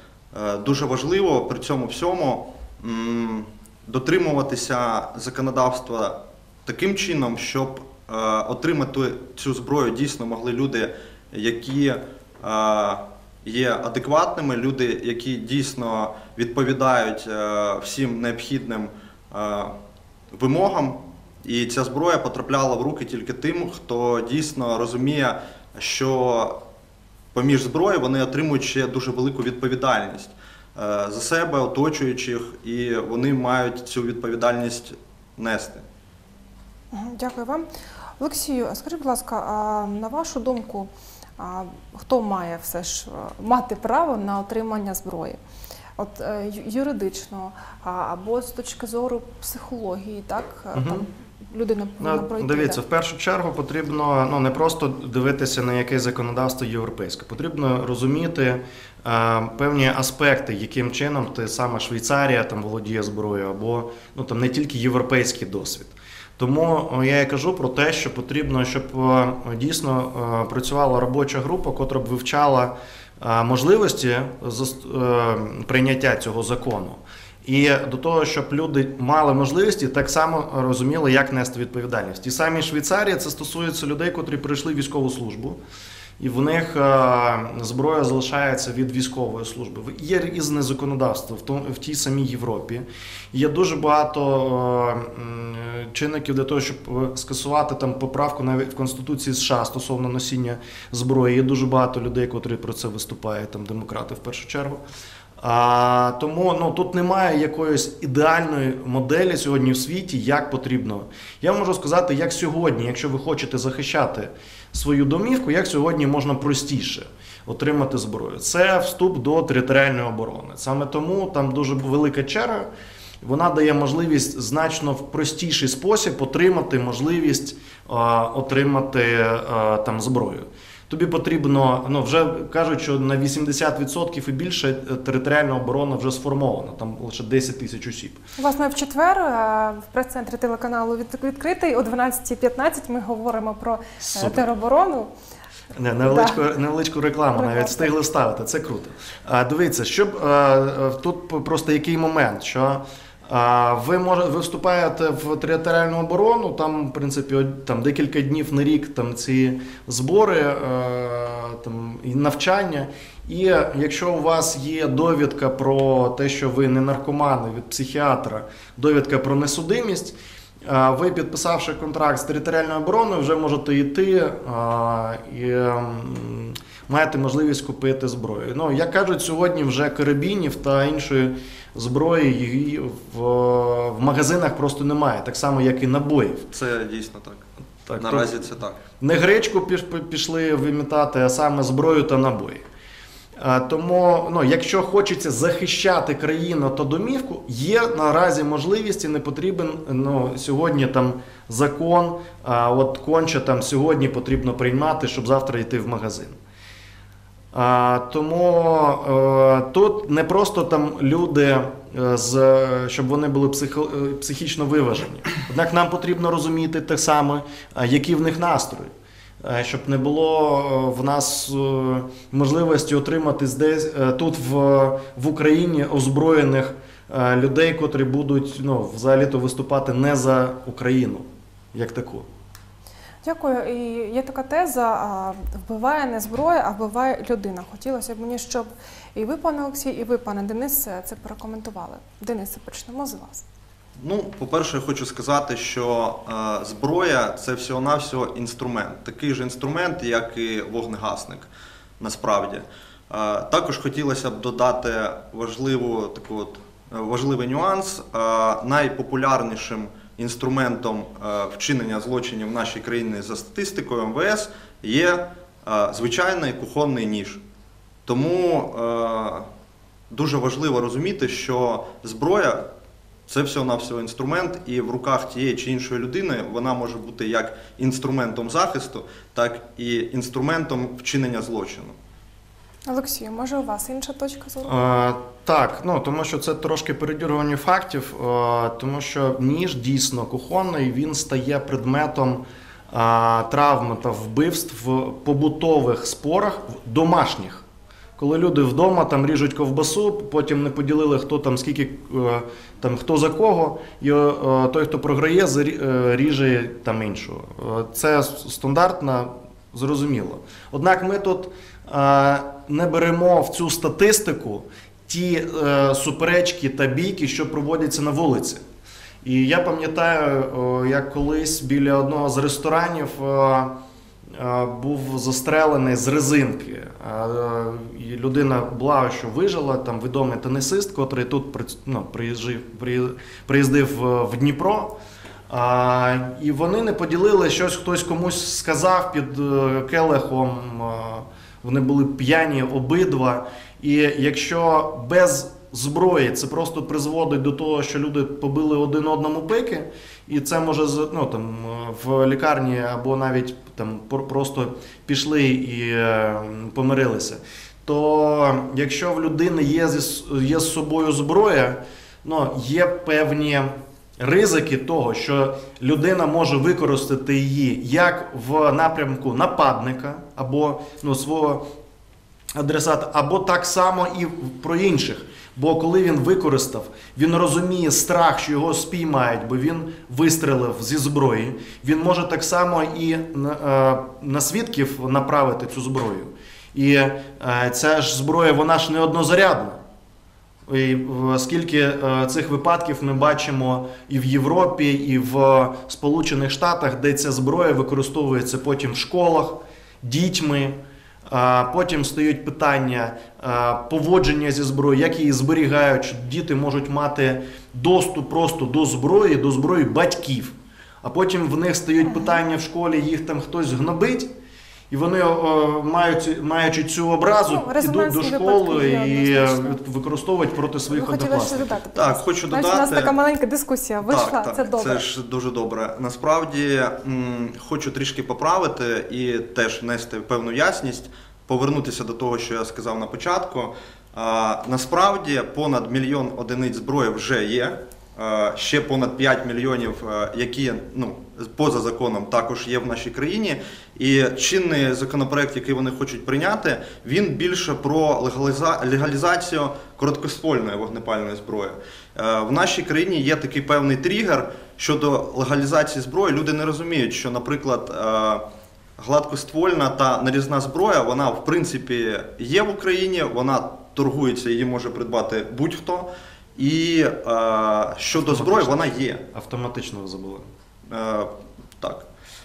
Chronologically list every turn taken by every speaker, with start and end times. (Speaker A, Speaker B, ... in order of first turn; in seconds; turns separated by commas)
Speaker A: 0.3-19.7, Speaker A: 20.3-26.6, Speaker A: 27.3-35.8, Speaker B: 36.9-37.7, Speaker B: 38.2-45.4, Speaker B: 46.0-52.8, Speaker C: 50.8-51.1, Speaker C: 52.0-85.6, Speaker C: 86.2-104.8, Speaker C: 105.4-122.7, Speaker C: 123.2-138.2, Speaker B: 138.4-145.1, Speaker C: 144.0-144.4, Speaker C: 145.8-186.5, Speaker B: 146.0-146.4, Speaker B: 147.3-147.9, Speaker A: 186.5-187.4, Speaker C: 187.9-192.7, Speaker A: 188.0-188.8, Speaker C: 193.4-206.4, Speaker C: 207.5-232.3, Speaker B: 233.2-243.4, Speaker A: 244.0-251.5, Speaker A: 252.0-267.4, Speaker A: 268.1-269.5, Speaker A: 270.1-272.6, Speaker A: 273.3-281.9, Speaker B: 282.9-284.8, Speaker C: 284.6-297.6, Speaker C: 298.2-318.6, Speaker C: 319.2-323.8, Speaker C: 324.3-335.0, Speaker C: 335.5-371.7, Speaker C: 372.6-389.8, Speaker C: 390.7-414.3, Speaker C: 414.9-421.8, Speaker B: 417.4-419.8, Speaker B: 420.9-425.0, Speaker A: 421.9-423.1, Speaker A: 424.0-458.4, Speaker A: 459.0-469.2, Speaker C: 468.1-470.5, Speaker A: 470.9-472.1